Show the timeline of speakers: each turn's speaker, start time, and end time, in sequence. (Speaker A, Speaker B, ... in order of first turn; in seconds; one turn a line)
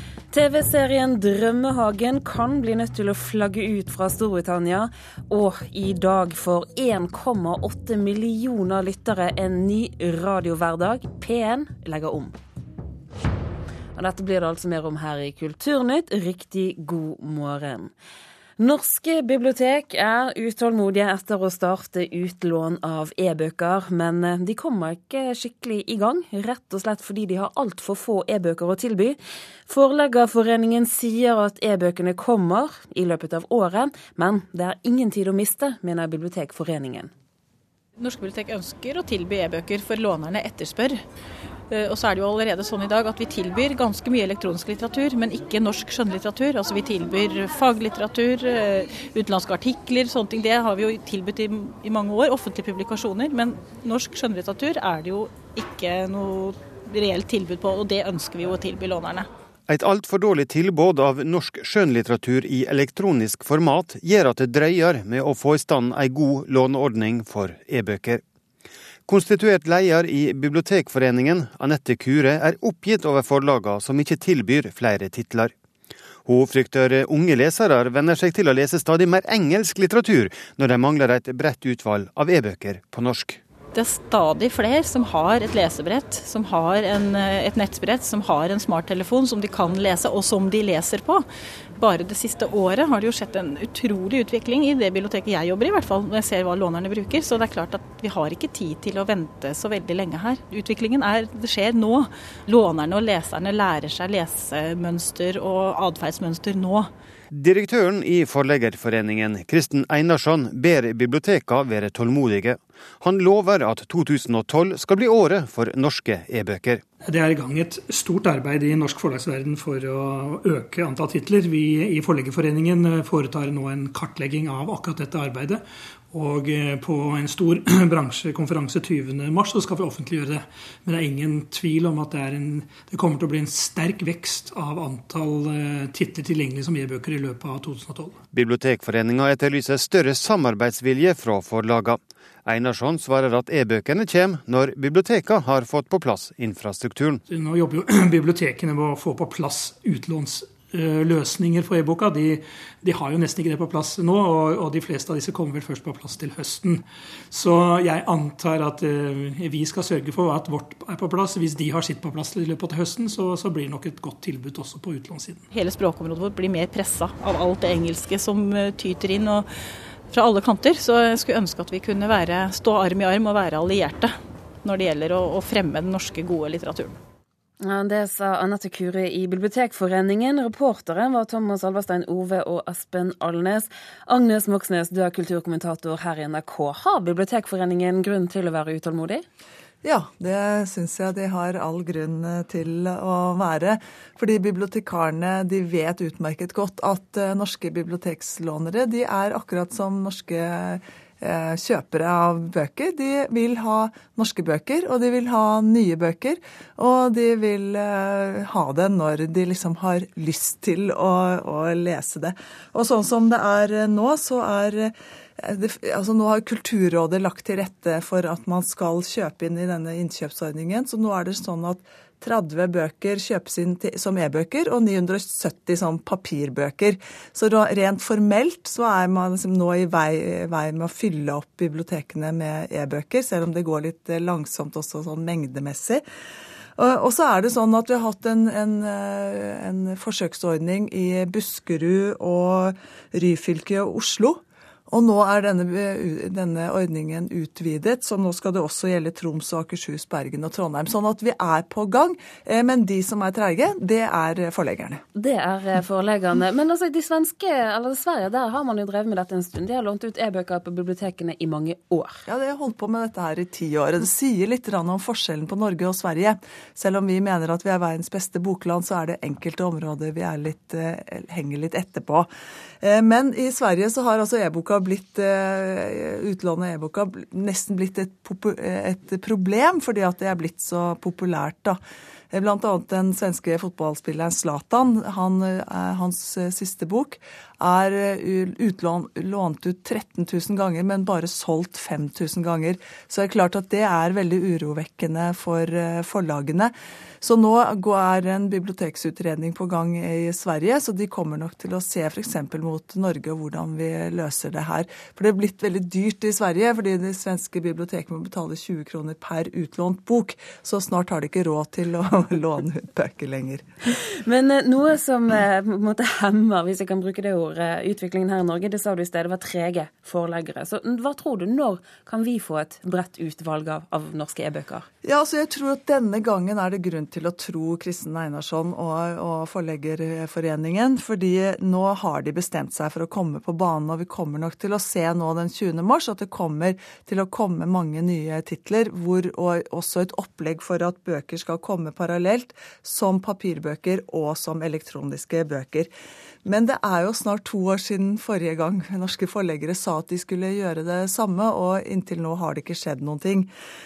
Speaker A: 0.3-12.3
Speaker A: 14.0-17.9
Speaker A: 18.6-37.1
Speaker B: 38.0-41.0
Speaker B: 41.7-59.3
Speaker C: 59.7-68.2
Speaker C: 69.1-75.5
Speaker C: 76.2-83.4
Speaker B: 83.7-91.2
Speaker B: 91.8-106.9
Speaker C: 107.3-116.8
Speaker D: 117.0-138.2
Speaker C: 138.3-147.2
Speaker D: 147.3-165.4
Speaker B: 165.5-169.5
Speaker B: 170.1-176.9
Speaker A: 177.6-189.2
Speaker E: 189.8-236.0
Speaker E: 236.8-255.0
Speaker A: 255.2-262.2
Speaker E: 262.3-272.3
Speaker E: 272.8-281.8
Speaker E: 282.3-313.6
Speaker A: 314.2-324.9
Speaker E: 325.0-345.9
Speaker E: 346.4-353.5